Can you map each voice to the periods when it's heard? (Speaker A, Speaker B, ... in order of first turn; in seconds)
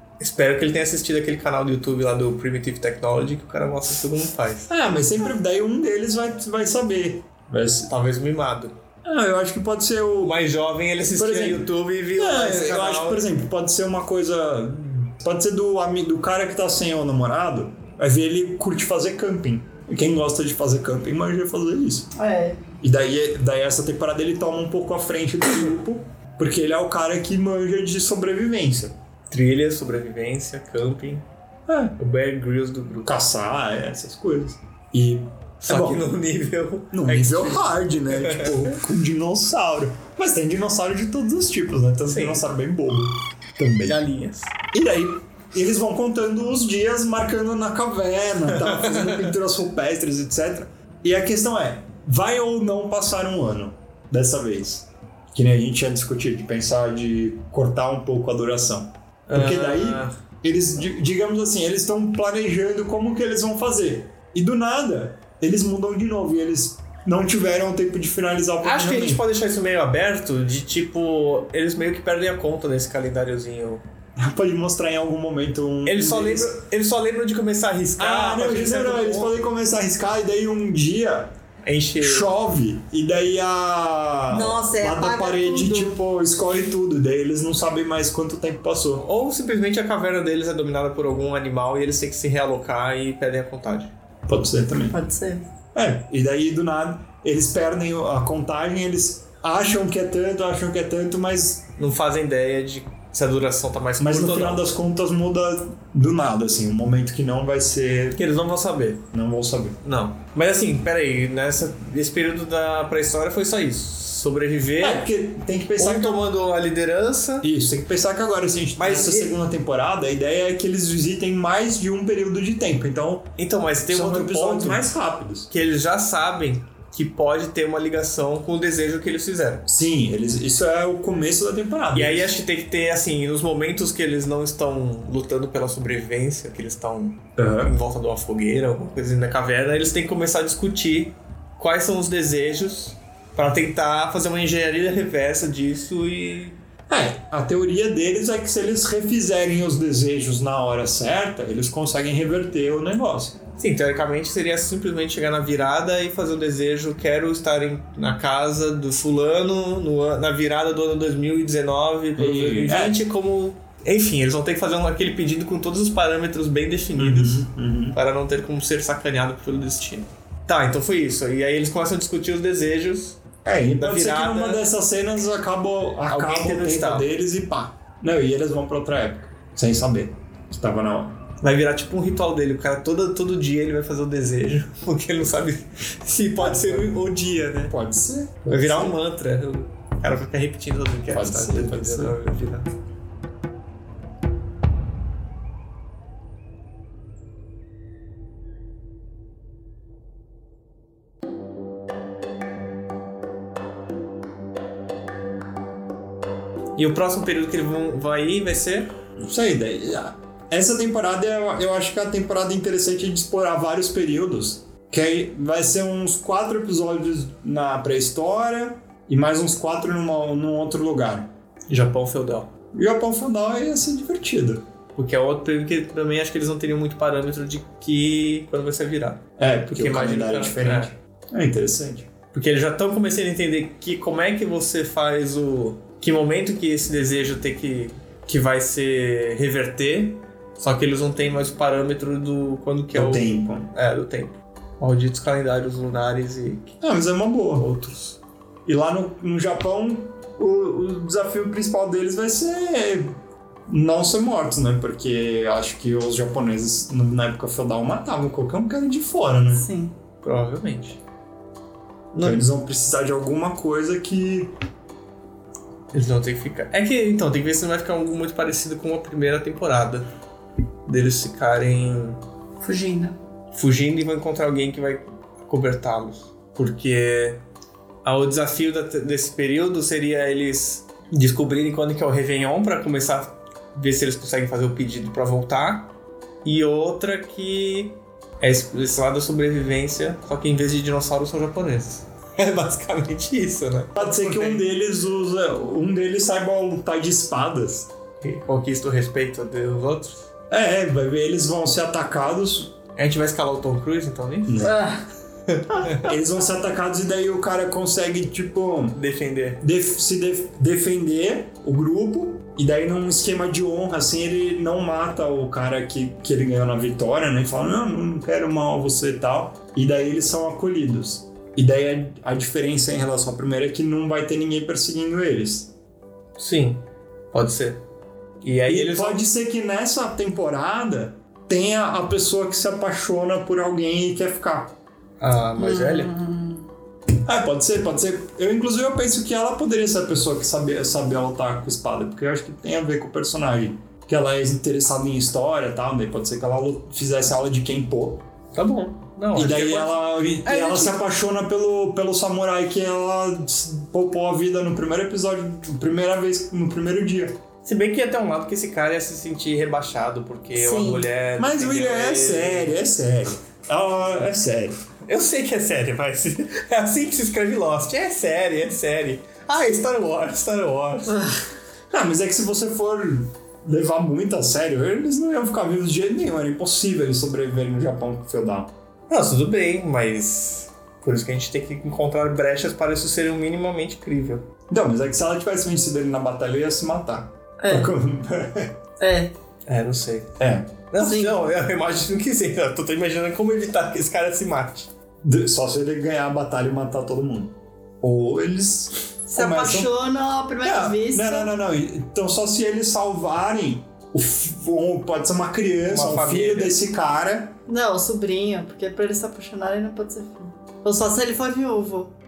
Speaker A: 0.2-4.7, 7.9-8.7, 10.2-13.2, 29.3-31.2, 32.0-33.1, 35.6-38.7, 42.1-42.5, 43.8-44.5, 48.6-49.3, 59.3-60.1, 68.6-73.8, 75.8-79.4, 81.6-82.3, 89.0-93.9, 101.8-104.6, 108.2-109.0, 109.8-115.0, 115.8-117.5, 118.8-119.3, 123.4-124.9, 125.5-129.6, 131.9-146.6, 153.6-174.6, 176.1-177.1, 181.4-187.7, 188.5-192.7, 206.8-208.9, 221.7-222.5, 224.9-230.9, 232.3-246.7, 260.2-261.0, 262.1-262.5, 265.9-270.1, 270.9-272.2, 273.5-277.4, 278.0-285.9, 286.4-294.6, 298.2-300.3, 302.9-304.7, 305.5-306.1, 308.9-309.6, 326.4-326.8, 327.3-327.8, 328.4-329.2, 335.2-336.1, 348.5-350.0, 350.5-350.8, 357.6-362.8, 365.1-371.2, 379.1-384.4, 389.7-390.3, 390.9-394.9, 405.8-406.8
Speaker B: 4.7-7.9, 9.0-10.4, 11.2-22.1, 22.8-28.9, 31.7-31.9, 33.0-36.0, 36.9-44.0, 44.7-69.2, 74.2-76.5, 78.0-81.3, 82.0-89.0, 94.3-95.0, 95.7-101.7, 104.0-108.2, 109.1-109.8, 114.8-116.2, 117.4-123.3, 123.9-125.5, 129.7-132.3, 137.4-137.8, 146.9-153.4, 162.2-163.1, 166.9-168.0, 173.4-181.2, 186.4-187.1, 187.6-189.0, 191.1-192.2, 209.2-221.3, 222.7-224.6, 229.4-232.1, 242.9-243.7, 246.8-253.1, 253.7-259.7, 262.2-264.5, 293.9-297.9, 300.5-302.8, 304.5-304.8, 306.0-309.0, 309.6-325.7, 328.7-334.7, 337.2-348.2, 349.3-357.4, 361.4-364.8, 371.9-378.7, 384.7-388.7, 390.4-390.7, 395.2-399.9, 400.6-407.6
Speaker C: 22.1-22.6, 84.3-86.0, 94.9-95.5, 259.5-259.9, 272.6-273.1, 304.6-305.0, 335.6-336.6, 350.5-350.9, 360.6-361.1, 387.6-387.9, 389.0-389.3, 391.0-391.4, 399.3-401.5, 407.7-412.1